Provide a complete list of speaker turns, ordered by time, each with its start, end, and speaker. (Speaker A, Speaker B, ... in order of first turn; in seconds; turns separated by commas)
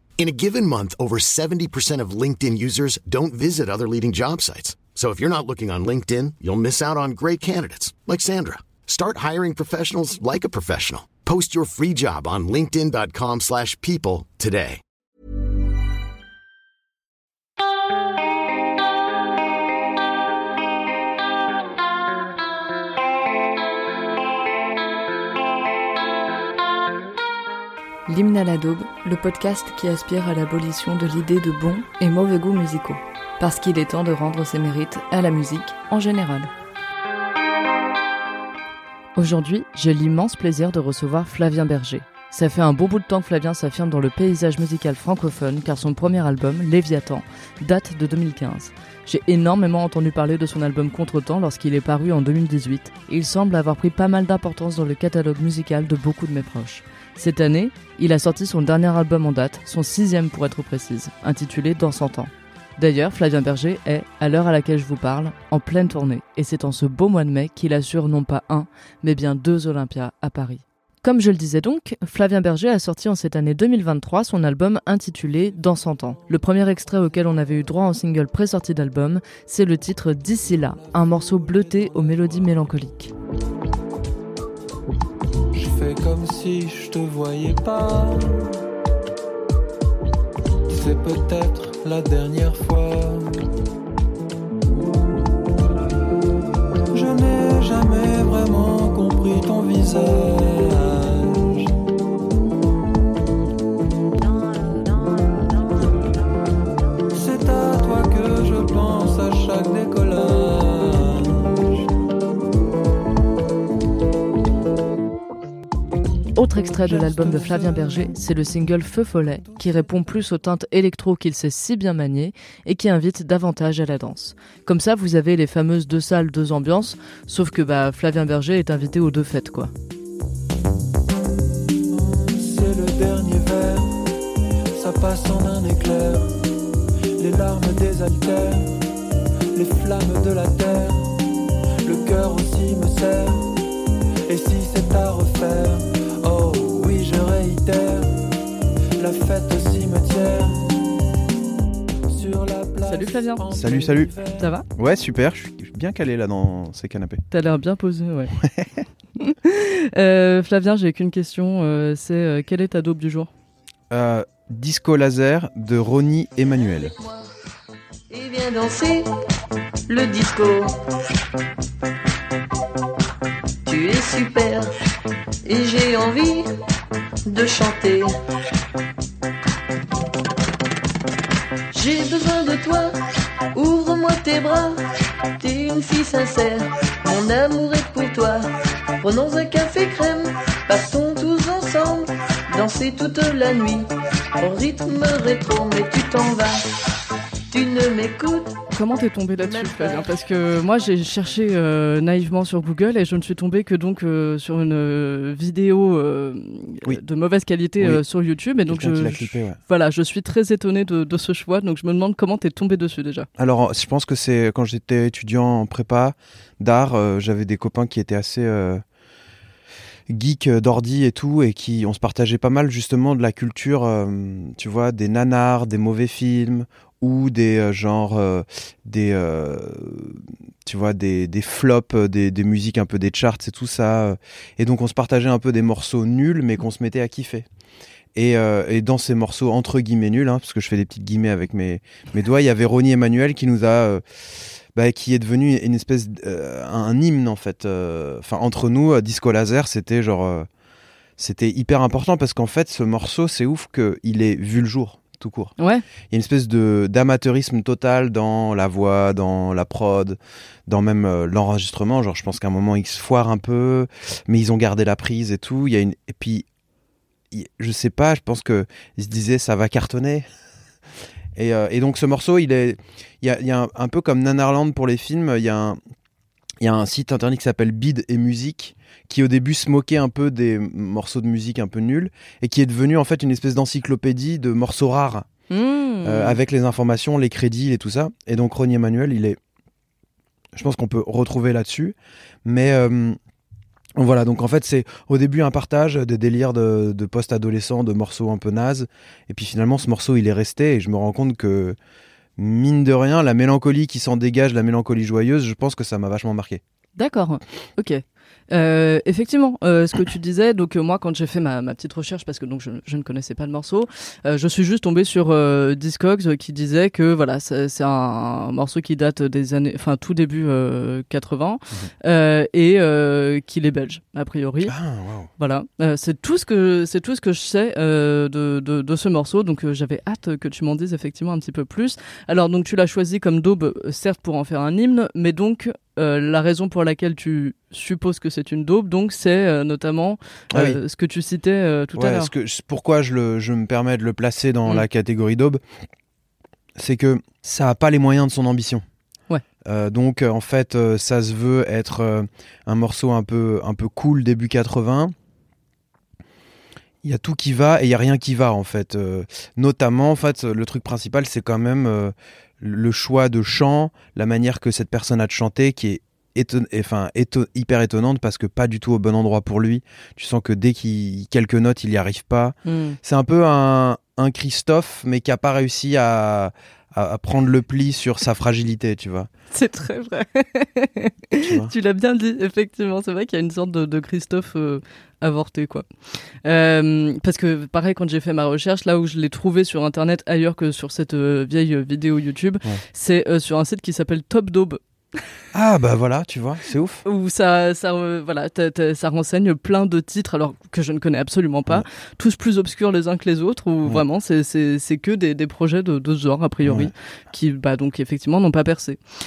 Speaker A: 0.2-14.8, Speaker B: 28.1-36.5, Speaker B: 39.2-83.1, Speaker C: 75.9-77.7, Speaker C: 80.3-82.8, Speaker C: 85.5-88.5, Speaker C: 90.7-93.3, Speaker C: 96.9-101.7, Speaker C: 107.1-111.8, Speaker B: 116.3-129.7, Speaker C: 116.6-118.7, Speaker C: 119.2-120.0, Speaker C: 131.9-134.0, Speaker C: 134.8-136.4, Speaker C: 137.2-138.8, Speaker C: 139.6-141.2, Speaker C: 141.8-143.4, Speaker C: 144.3-148.2, Speaker C: 149.0-150.8, Speaker C: 152.1-154.5, Speaker B: 152.8-153.5, Speaker D: 153.5-154.1, Speaker B: 154.4-154.7, Speaker D: 154.8-157.2, Speaker B: 157.3-158.3, Speaker D: 158.4-158.8, Speaker B: 159.2-163.3, Speaker D: 163.9-166.9, Speaker E: 168.1-169.1, Speaker E: 169.9-170.8, Speaker E: 173.7-174.7, Speaker E: 175.4-176.5, Speaker E: 177.3-178.1, Speaker E: 181.7-183.0, Speaker E: 183.5-184.8, Speaker E: 185.4-188.4, Speaker E: 189.0-196.6, Speaker E: 197.5-198.6, Speaker B: 198.7-213.3, Speaker E: 199.4-200.1, Speaker D: 208.7-209.6, Speaker D: 213.4-218.8, Speaker D: 220.1-237.5, Speaker D: 238.2-250.5, Speaker D: 251.2-255.6, Speaker B: 255.6-255.8, Speaker D: 256.1-266.4, Speaker D: 267.3-270.3, Speaker D: 271.4-275.8, Speaker D: 276.6-285.3, Speaker B: 285.5-286.4, Speaker D: 286.0-289.4, Speaker D: 290.6-293.2, Speaker D: 294.0-301.8, Speaker D: 302.4-306.6, Speaker B: 307.0-324.7, Speaker D: 324.6-325.3, Speaker B: 325.4-342.3, Speaker D: 340.5-340.8, Speaker D: 341.9-345.6, Speaker D: 346.8-348.8, Speaker D: 349.6-355.1, Speaker D: 357.0-379.3, Speaker B: 372.6-373.0, Speaker B: 379.5-385.9, Speaker D: 381.4-381.7, Speaker B: 386.4-394.8, Speaker D: 395.5-397.0, Speaker B: 397.1-409.0, Speaker D: 406.7-406.9